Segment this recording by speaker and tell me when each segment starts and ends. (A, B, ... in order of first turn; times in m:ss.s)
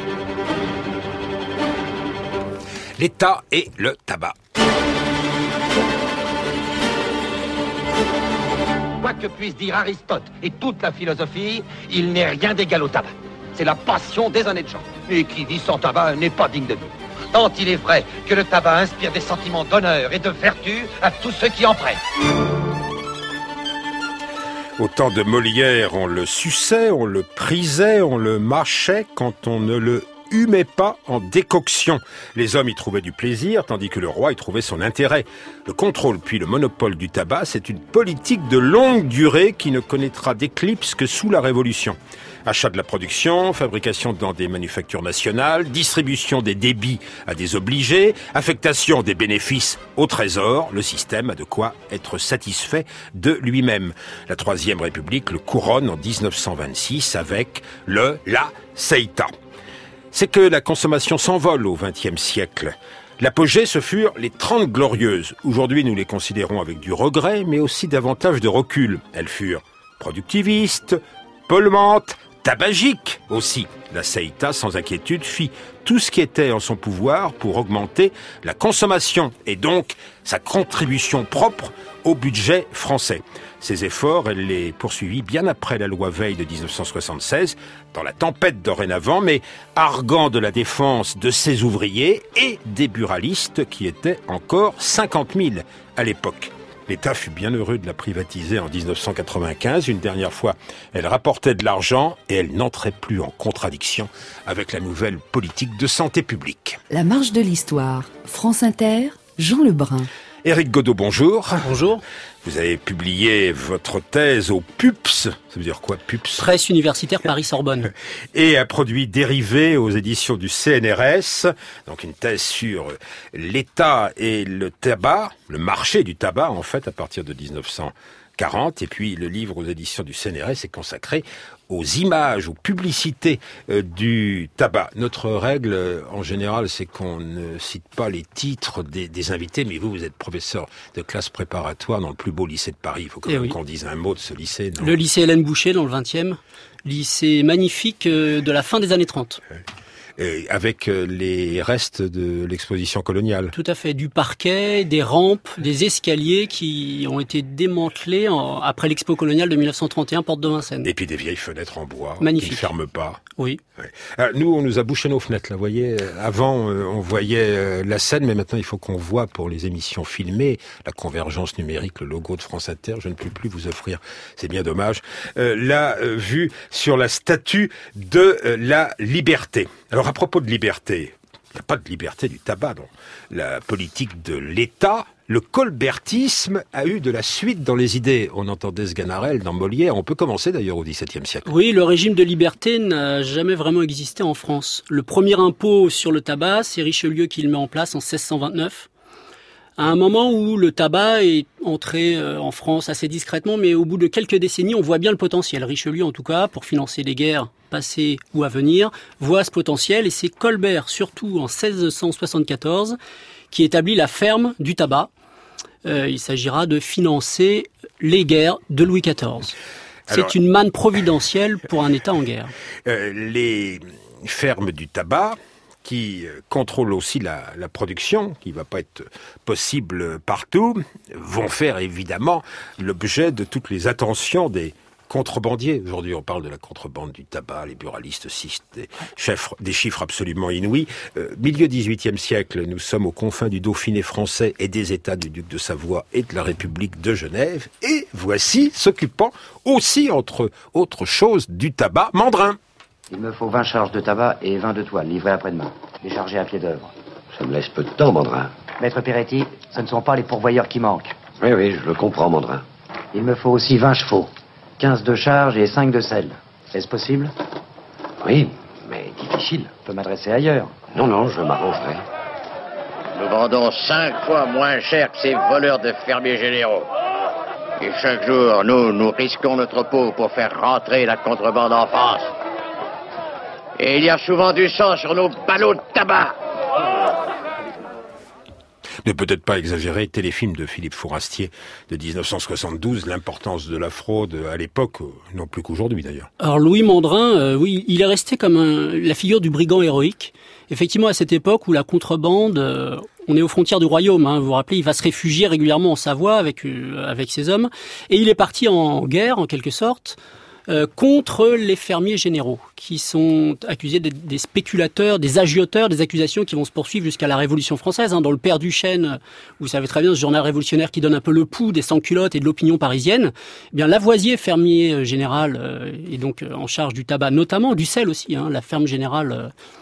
0:03.0-0:04.4 A
0:09.0-0:22.0 B
0:24.8-0:59.3 A
1:00.1-1:46.8 A
1:46.9-1:50.1 C
1:50.4-1:51.6 A
1:51.6-1:52.0 D
1:52.4-1:56.5 A
1:56.4-1:57.9 D
1:58.3-2:25.0 A
2:23.3-2:23.6 D
2:24.8-2:29.4 D
2:30.2-2:33.5 A
2:33.5-2:40.9 D
2:40.8-2:43.2 A
2:42.2-2:42.7 D
2:43.8-3:11.5 A
3:11.5-3:18.9 D
3:19.8-3:33.0 D
3:33.5-3:35.1 D
3:35.8-3:39.6 D
3:40.1-3:40.4 A
3:40.1-3:42.5 D
3:42.9-4:12.6 A
4:13.1-4:16.9 E
4:17.3-4:18.5 F
4:18.7-4:21.2 E
4:21.4-4:22.6 F
4:23.1-4:27.3 E
4:28.2-4:29.2 F
4:29.0-4:30.9 E
4:30.9-4:32.0 F
4:33.2-4:36.9 G
4:37.8-4:42.3 G
4:43.8-4:46.4 G
4:49.0-4:56.3 A
4:56.4-5:10.2 D
5:10.7-5:29.5 D